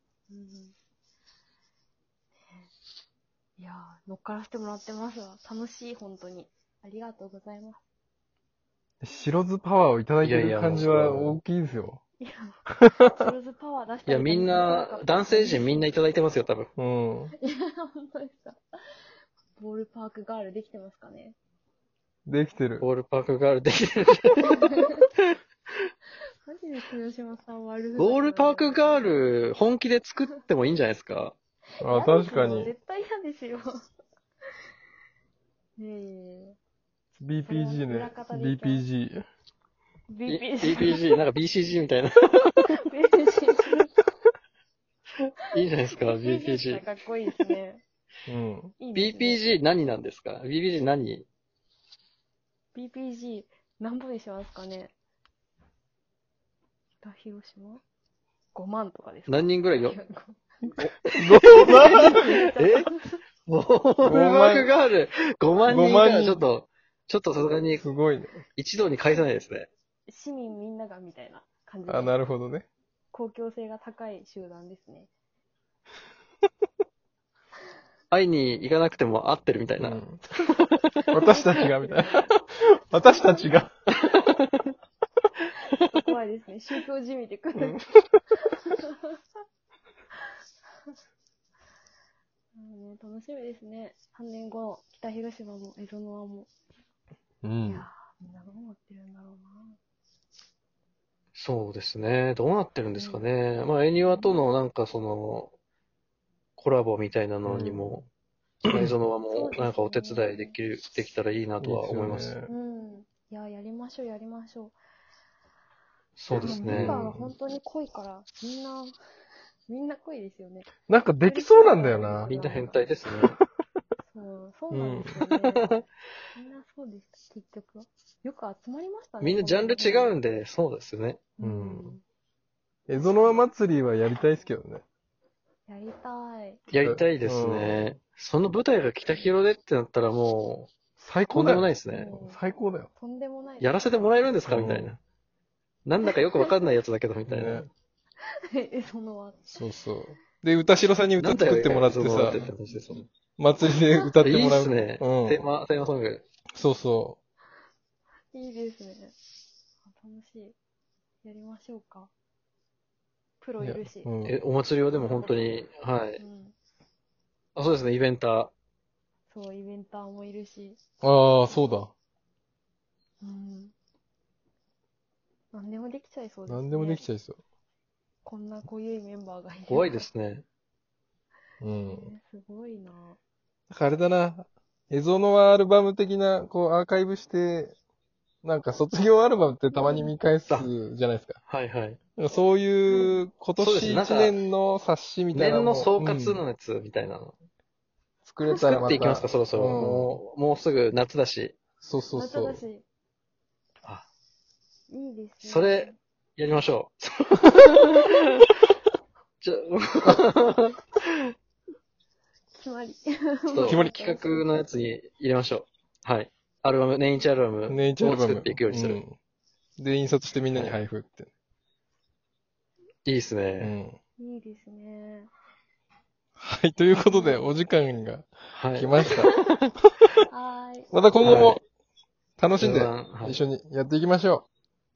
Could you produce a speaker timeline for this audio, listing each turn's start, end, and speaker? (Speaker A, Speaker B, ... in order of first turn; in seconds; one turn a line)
Speaker A: 0.3-0.7
Speaker A: 3.6-7.8
Speaker B: 9.0-12.0
Speaker C: 10.2-11.4
Speaker A: 12.2-16.0
Speaker C: 14.1-16.7
Speaker B: 16.8-17.3
Speaker A: 17.4-18.6
Speaker A: 19.6-21.4
Speaker B: 22.3-22.9
Speaker C: 22.8-24.8
Speaker A: 24.5-24.9
Speaker A: 26.4-29.0
Speaker C: 27.9-31.3
Speaker B: 31.8-32.7
Speaker A: 31.9-33.9
Speaker A: 35.8-36.6
Speaker B: 37.2-39.2
Speaker A: 37.4-38.9
Speaker A: 40.1-41.0
Speaker C: 40.3-42.8
Speaker A: 42.8-43.9
Speaker C: 45.5-46.8
Speaker A: 46.0-47.8
Speaker B: 48.3-48.7
Speaker A: 48.8-49.4
Speaker C: 48.9-51.2
Speaker A: 52.7-54.9
Speaker A: 57.0-57.8
Speaker A: 58.5-60.4
Speaker C: 59.3-60.0
Speaker B: 60.8-62.5
Speaker C: 61.2-62.9
Speaker A: 61.4-63.2
Speaker C: 63.5-67.9
Speaker B: 64.0-64.7
Speaker B: 65.6-66.4
Speaker B: 67.8-68.4
Speaker C: 68.6-69.7
Speaker A: 70.1-72.2
Speaker B: 71.9-72.7
Speaker A: 73.1-75.1
Speaker C: 78.1-80.8
Speaker B: 79.8-80.2
Speaker A: 81.1-82.3
Speaker B: 81.1-83.7
Speaker A: 83.0-83.6
Speaker C: 84.1-84.4
Speaker A: 85.8-87.8
Speaker B: 87.6-88.1
Speaker A: 88.4-89.2
Speaker A: 92.5-96.5
Speaker B: 97.4-97.9
Speaker A: 97.7-99.8
Speaker C: 101.3-105.5
Speaker A: 102.9-103.2
Speaker A: 104.0-104.4
Speaker C: 106.6-108.1
Speaker B: 107.5-108.0
Speaker C: 108.6-112.3
Speaker A: 109.3-110.6
Speaker B: 111.6-112.5
Speaker A: 112.5-114.8
Speaker C: 116.2-117.0
Speaker B: 116.3-117.3
Speaker A: 116.4-119.0
Speaker A: 119.7-120.7
Speaker B: 120.9-122.4
Speaker A: 121.2-122.8
Speaker C: 122.2-123.4
Speaker B: 123.1-123.4
Speaker A: 124.0-125.7
Speaker B: 124.7-125.1
Speaker A: 126.3-130.2
Speaker C: 129.2-131.3
Speaker B: 131.4-132.0
Speaker A: 131.4-132.0
Speaker B: 132.9-134.8
Speaker A: 132.9-133.4
Speaker A: 135.7-136.7
Speaker C: 136.7-140.7
Speaker B: 136.8-137.8
Speaker B: 141.0-142.9
Speaker C: 141.3-142.2
Speaker A: 141.9-142.4
Speaker A: 143.0-143.7
Speaker C: 143.6-145.0
Speaker B: 144.5-144.9
Speaker C: 145.8-147.7
Speaker A: 146.0-146.5
Speaker B: 147.3-147.7
Speaker A: 148.5-149.6
Speaker B: 149.6-152.5
Speaker C: 151.2-153.1
Speaker B: 153.4-155.4
Speaker C: 154.2-156.2
Speaker B: 156.5-157.2
Speaker A: 158.3-159.1
Speaker A: 159.8-160.6
Speaker A: 161.2-162.1
Speaker A: 163.4-164.1
Speaker B: 163.6-164.4
Speaker C: 164.2-166.2
Speaker A: 164.9-165.4
Speaker A: 166.2-166.5
Speaker C: 167.6-168.5
Speaker A: 169.3-170.8
Speaker B: 171.0-171.9
Speaker A: 173.2-173.7
Speaker A: 175.5-177.1
Speaker B: 176.5-177.4
Speaker A: 178.2-180.1
Speaker C: 179.7-180.4
Speaker B: 181.6-182.1
Speaker A: 181.8-183.2
Speaker B: 183.7-187.7
Speaker B: 188.4-191.4
Speaker A: 189.7-190.1
Speaker C: 191.5-192.0
Speaker B: 192.2-196.4
Speaker A: 192.9-193.2
Speaker C: 193.6-194.4
Speaker C: 195.3-197.3
Speaker B: 198.2-200.2
Speaker A: 198.5-199.1
Speaker C: 198.6-201.6
Speaker B: 201.8-202.6
Speaker A: 202.1-202.8
Speaker A: 204.9-206.0
Speaker C: 205.4-208.4
Speaker C: 209.4-210.8
Speaker A: 212.5-214.4
Speaker C: 213.5-219.0
Speaker B: 213.6-214.1
Speaker B: 217.7-219.2
Speaker B: 219.8-221.3
Speaker C: 220.5-220.8
Speaker C: 223.1-223.7
Speaker B: 223.6-224.0
Speaker A: 224.2-225.3
Speaker B: 226.4-229.3
Speaker A: 226.9-227.5
Speaker C: 228.5-229.4
Speaker A: 230.3-230.9
Speaker B: 230.9-231.6
Speaker C: 231.2-231.6
Speaker B: 232.4-234.4
Speaker C: 232.6-233.4